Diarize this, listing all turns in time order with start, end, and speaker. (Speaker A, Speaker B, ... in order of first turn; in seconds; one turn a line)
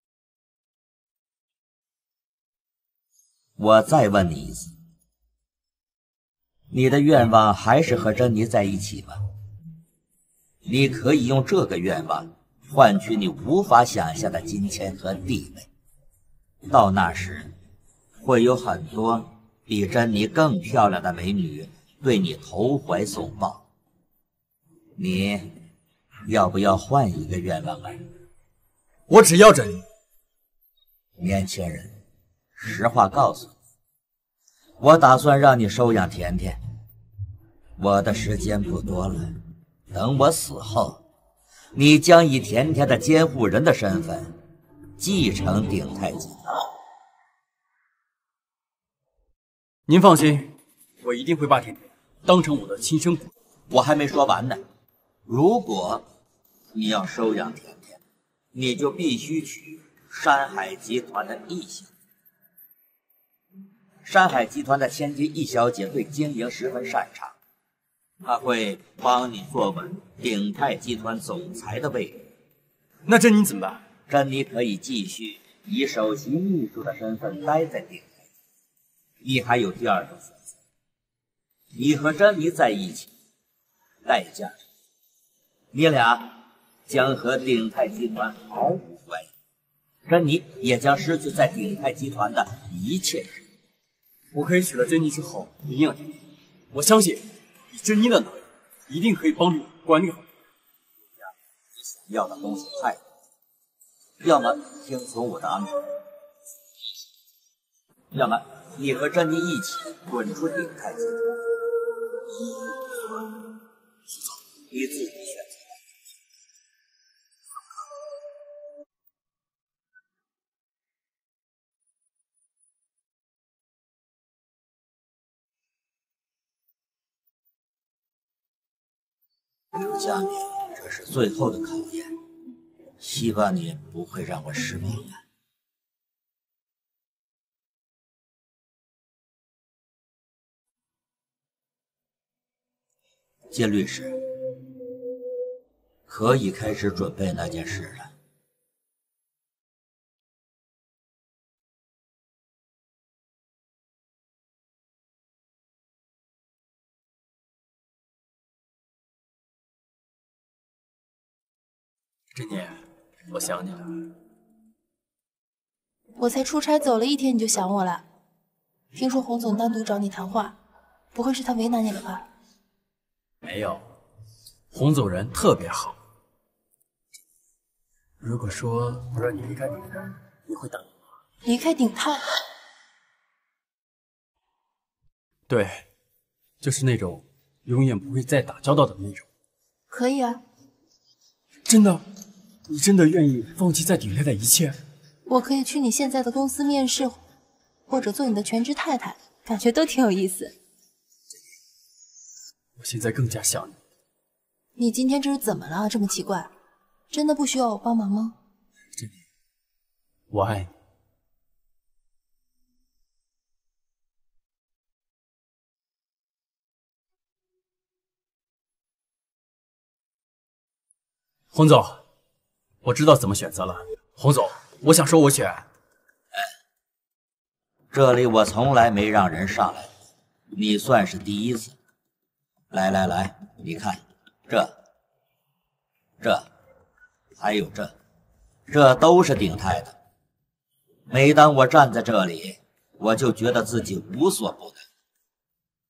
Speaker A: 3.6-4.7
Speaker A: 6.7-9.2
Speaker A: 10.7-15.7
Speaker A: 16.7-17.5
Speaker A: 18.2-23.6
Speaker A: 25.0-25.6
Speaker A: 26.2-28.1
Speaker B: 29.1-29.9
Speaker A: 31.2-32.0
Speaker A: 32.6-33.5
Speaker A: 34.8-36.6
Speaker A: 37.8-39.4
Speaker A: 39.9-41.0
Speaker A: 41.7-44.4
Speaker A: 45.0-46.4
Speaker B: 49.9-53.3
Speaker A: 53.7-54.6
Speaker A: 55.3-56.0
Speaker A: 56.7-58.0
Speaker A: 58.5-61.9
Speaker A: 64.0-67.4
Speaker A: 68.2-72.3
Speaker B: 73.1-73.8
Speaker A: 74.1-78.1
Speaker A: 79.2-80.3
Speaker A: 81.7-83.1
Speaker A: 84.0-84.6
Speaker A: 85.7-86.3
Speaker A: 86.9-89.3
Speaker A: 90.0-93.4
Speaker B: 94.3-100.3
Speaker A: 102.0-103.0
Speaker A: 104.2-105.8
Speaker A: 108.1-111.3
Speaker A: 114.7-115.6
Speaker A: 129.7-132.1
Speaker A: 133.0-135.2
Speaker A: 143.5-144.2
Speaker A: 146.1-148.1
Speaker B: 162.3-164.1
Speaker C: 166.2-168.0
Speaker C: 168.9-170.6
Speaker C: 171.1-172.3
Speaker B: 173.4-173.9
Speaker B: 174.7-176.0
Speaker B: 178.2-180.9
Speaker C: 181.4-182.2
Speaker B: 185.5-185.9
Speaker B: 186.6-189.3
Speaker C: 189.9-190.4
Speaker B: 191.7-192.1
Speaker B: 192.7-194.8
Speaker C: 195.3-197.2
Speaker C: 197.9-200.5
Speaker B: 202.8-203.8
Speaker C: 204.8-206.5
Speaker C: 207.1-208.4
Speaker B: 208.9-209.2
Speaker B: 210.3-210.7
Speaker B: 221.5-222.0
Speaker B: 222.8-225.7
Speaker A: 227.9-229.9
Speaker A: 230.5-231.8
Speaker A: 232.7-234.8
Speaker A: 236.2-236.5
Speaker A: 237.4-237.9
Speaker A: 238.7-239.9
Speaker A: 241.1-244.8